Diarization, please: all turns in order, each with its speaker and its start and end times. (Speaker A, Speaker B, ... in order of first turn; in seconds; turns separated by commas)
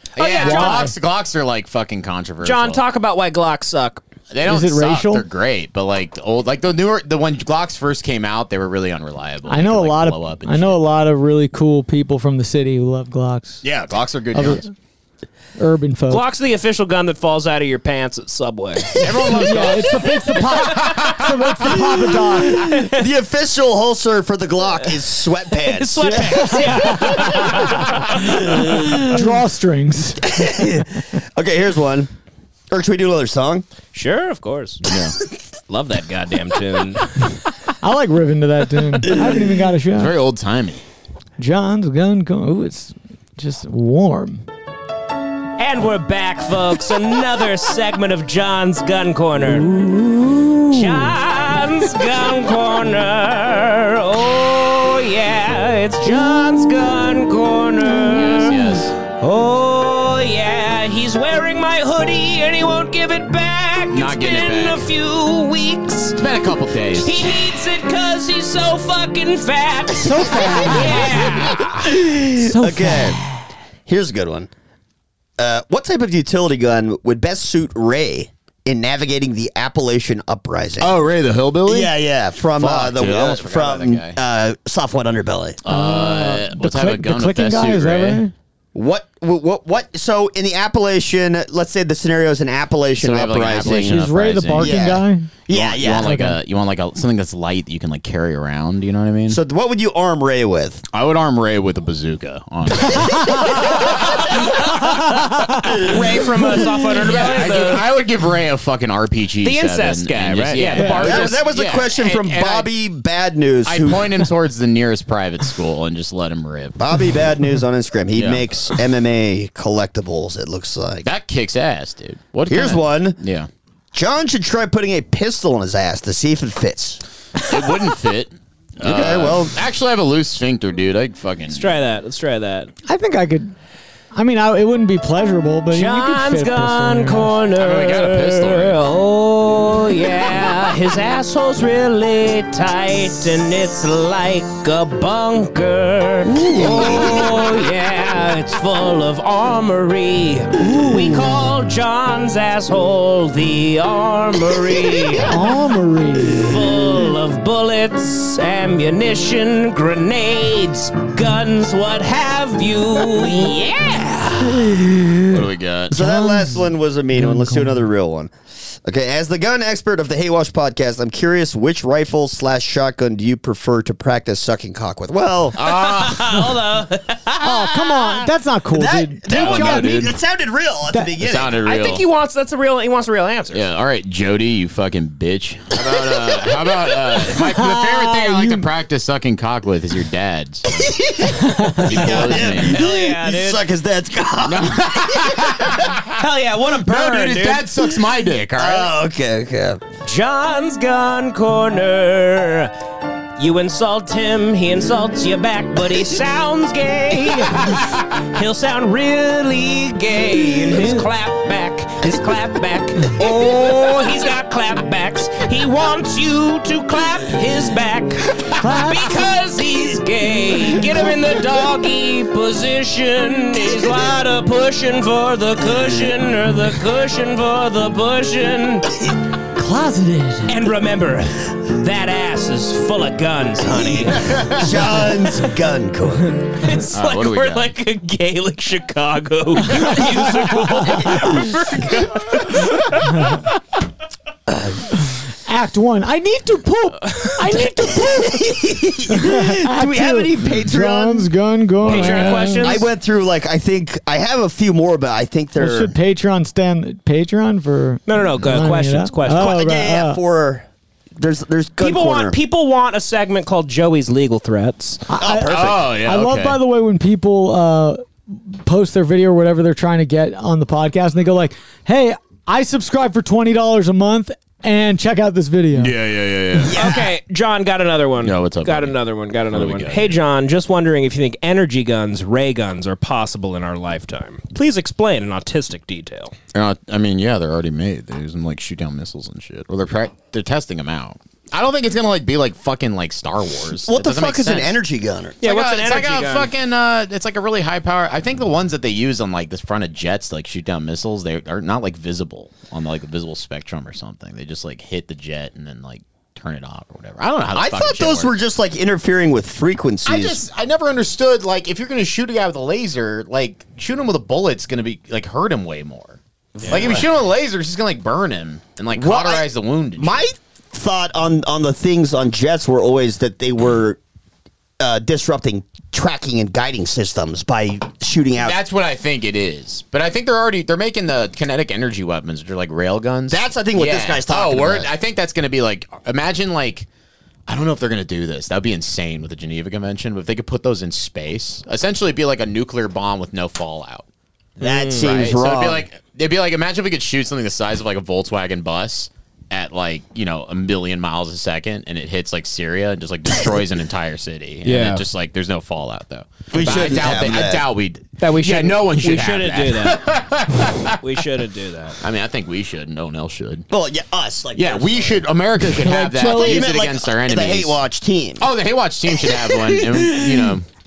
Speaker A: 0.2-2.8, Speaker B: 0.2-0.9, Speaker C: 0.4-0.9, Speaker B: 2.4-4.0, Speaker A: 4.3-10.8, Speaker C: 4.4-5.2, Speaker C: 9.5-13.6, Speaker A: 13.6-14.7, Speaker C: 14.3-14.7, Speaker C: 15.6-16.2, Speaker B: 16.1-19.0, Speaker A: 19.0-21.3, Speaker C: 19.3-22.7, Speaker B: 22.6-23.1, Speaker D: 22.6-27.0, Speaker B: 25.6-27.9, Speaker C: 26.1-27.6, Speaker D: 28.6-29.2, Speaker C: 29.0-30.2, Speaker D: 30.3-32.1, Speaker D: 32.7-33.6, Speaker B: 33.9-34.8, Speaker A: 34.9-35.2, Speaker B: 35.7-37.1, Speaker C: 37.8-40.1, Speaker A: 39.9-40.8, Speaker C: 41.4-44.4, Speaker B: 45.6-49.8, Speaker C: 49.6-51.1, Speaker B: 50.7-66.3, Speaker A: 58.1-59.0, Speaker A: 63.9-64.9, Speaker A: 66.2-67.4, Speaker B: 66.9-71.8, Speaker C: 70.0-71.2, Speaker A: 71.5-71.8, Speaker D: 71.8-73.2, Speaker C: 72.4-73.4, Speaker D: 73.9-74.5, Speaker D: 75.4-80.9, Speaker A: 80.8-81.9, Speaker D: 81.7-85.6, Speaker A: 82.6-84.2, Speaker A: 85.7-88.2, Speaker C: 85.7-88.3, Speaker D: 88.7-96.2, Speaker A: 93.0-94.8, Speaker C: 93.8-95.3, Speaker A: 95.5-99.4, Speaker C: 95.9-96.3, Speaker D: 99.3-100.8, Speaker A: 100.9-104.4, Speaker C: 103.0-103.4, Speaker D: 103.6-104.0, Speaker D: 105.7-106.2, Speaker B: 105.8-107.9, Speaker A: 107.0-112.7, Speaker B: 109.4-111.4, Speaker C: 110.8-111.0, Speaker D: 110.8-114.2, Speaker A: 113.7-116.8, Speaker D: 116.8-121.1, Speaker A: 118.2-118.5, Speaker A: 121.0-123.5, Speaker D: 122.5-123.2, Speaker D: 123.9-127.0, Speaker A: 127.4-131.7, Speaker D: 128.8-129.5, Speaker B: 131.5-132.7, Speaker C: 132.9-133.5, Speaker C: 134.1-137.4, Speaker B: 135.7-155.3, Speaker A: 137.6-138.8, Speaker D: 146.3-147.3, Speaker C: 150.7-151.2, Speaker C: 155.2-156.6, Speaker B: 156.3-164.7, Speaker A: 165.3-166.0, Speaker D: 165.9-175.6, Speaker C: 166.0-167.8, Speaker A: 175.6-176.4, Speaker B: 175.6-178.2, Speaker C: 177.4-179.9, Speaker D: 178.7-181.6, Speaker A: 179.3-180.2, Speaker A: 181.2-182.0, Speaker B: 181.6-183.6, Speaker A: 183.5-190.9, Speaker C: 187.4-188.7, Speaker D: 190.7-195.8, Speaker A: 191.8-192.8, Speaker B: 192.2-193.6, Speaker A: 194.4-196.2, Speaker B: 196.1-197.7, Speaker A: 196.7-198.9, Speaker D: 198.6-199.8, Speaker B: 200.0-202.7, Speaker B: 203.4-207.8, Speaker A: 207.6-207.9, Speaker B: 208.3-228.9, Speaker C: 218.6-219.1, Speaker C: 229.6-230.5, Speaker B: 230.5-234.4, Speaker D: 234.1-236.4, Speaker A: 234.2-234.7, Speaker B: 236.6-243.3, Speaker A: 236.9-237.7, Speaker D: 244.5-244.9, Speaker C: 245.5-252.8, Speaker D: 248.0-251.3, Speaker A: 251.8-252.6, Speaker B: 251.8-252.9, Speaker D: 252.6-255.9, Speaker C: 255.6-260.2, Speaker B: 258.1-259.5, Speaker D: 259.2-260.7, Speaker D: 261.2-262.4, Speaker B: 261.8-265.0, Speaker C: 265.1-275.9, Speaker D: 265.2-266.0, Speaker A: 265.4-266.6, Speaker A: 275.8-276.8, Speaker D: 276.7-277.1, Speaker B: 276.7-286.3, Speaker A: 278.2-279.0, Speaker A: 279.5-280.2, Speaker A: 286.5-294.8, Speaker D: 293.9-295.4, Speaker B: 295.4-296.5, Speaker A: 295.4-308.4, Speaker D: 307.5-310.4, Speaker A: 310.1-320.2, Speaker D: 316.6-317.1, Speaker D: 318.9-319.5, Speaker D: 320.0-324.0, Speaker D: 324.8-328.6, Speaker A: 328.4-336.9, Speaker D: 333.3-334.9, Speaker A: 337.5-344.1, Speaker D: 344.6-345.9, Speaker B: 344.6-345.1, Speaker A: 344.9-361.0, Speaker B: 354.6-355.0, Speaker D: 356.5-357.7, Speaker B: 358.2-360.0, Speaker B: 361.0-362.0, Speaker A: 362.0-363.7, Speaker D: 363.7-365.2, Speaker A: 364.6-367.8, Speaker C: 365.7-366.7, Speaker D: 366.1-368.5, Speaker A: 368.4-370.7, Speaker D: 369.2-370.5